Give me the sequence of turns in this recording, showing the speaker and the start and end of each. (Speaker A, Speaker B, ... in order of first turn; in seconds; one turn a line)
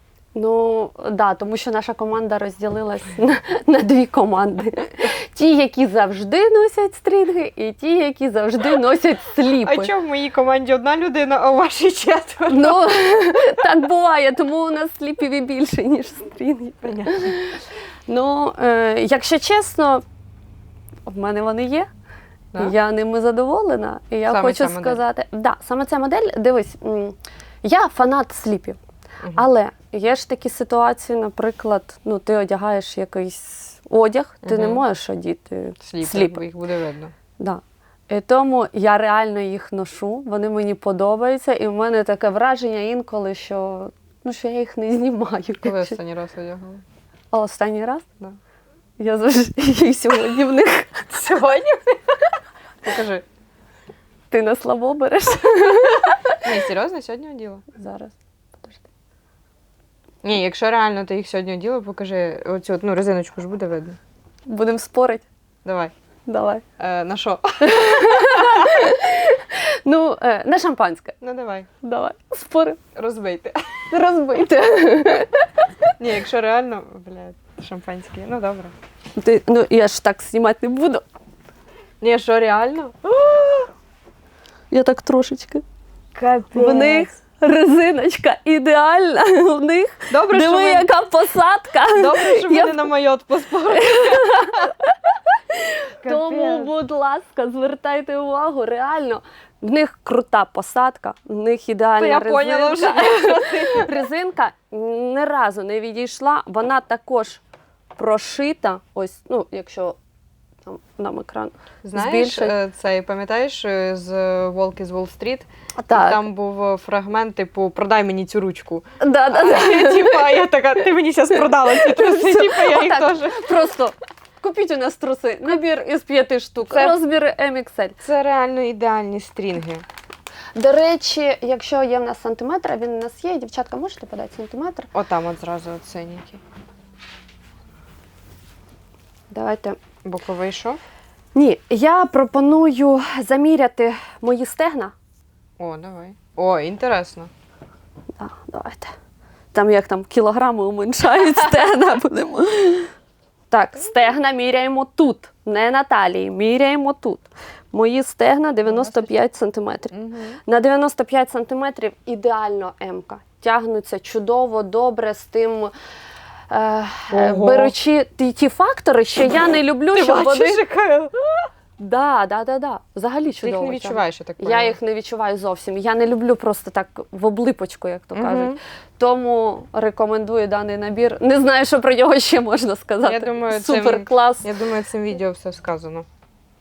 Speaker A: 0.3-9.9
Speaker B: 9.6-12.9
Speaker A: 12.5-20.0
Speaker B: 16.8-17.3
Speaker A: 21.1-21.9
Speaker A: 22.6-28.8
Speaker B: 24.2-25.0
Speaker A: 29.3-36.4
Speaker B: 34.4-34.8
Speaker B: 35.8-37.1
Speaker A: 37.4-46.0
Speaker B: 45.6-46.8
Speaker A: 47.3-48.0
Speaker A: 49.0-51.1
Speaker B: 51.1-52.0
Speaker B: 52.8-53.2
Speaker A: 54.3-56.4
Speaker B: 56.4-57.6
Speaker A: 57.7-58.8
Speaker B: 60.2-64.0
Speaker A: 64.5-65.2
Speaker B: 65.6-65.9
Speaker A: 66.2-66.6
Speaker B: 66.8-68.6
Speaker A: 67.6-71.2
Speaker B: 71.2-71.7
Speaker A: 71.8-72.8
Speaker B: 72.9-73.8
Speaker A: 73.9-75.6
Speaker B: 76.0-78.7
Speaker A: 79.2-81.0
Speaker B: 82.0-83.7
Speaker A: 84.7-85.6
Speaker B: 86.1-87.1
Speaker A: 86.5-92.8
Speaker B: 90.1-90.9
Speaker B: 91.9-94.6
Speaker A: 93.7-107.4
Speaker B: 96.0-96.7
Speaker B: 102.0-103.9
Speaker A: 108.0-110.0
Speaker A: 110.7-112.5
Speaker B: 111.8-123.5
Speaker A: 115.8-116.2
Speaker A: 119.0-120.4
Speaker A: 121.4-128.0
Speaker B: 126.7-126.9
Speaker B: 128.0-129.8
Speaker A: 130.5-134.9
Speaker B: 134.9-136.4
Speaker A: 139.3-139.8
Speaker B: 140.0-140.8
Speaker A: 141.3-144.9
Speaker B: 145.6-147.3
Speaker A: 148.2-148.9
Speaker A: 149.5-152.9
Speaker A: 153.5-159.9
Speaker B: 158.7-159.1
Speaker B: 159.9-160.4
Speaker A: 160.4-165.7
Speaker A: 166.5-170.6
Speaker B: 167.1-167.7
Speaker B: 169.9-171.5
Speaker A: 171.8-184.5
Speaker B: 173.4-174.8
Speaker B: 178.1-178.6
Speaker B: 183.0-186.1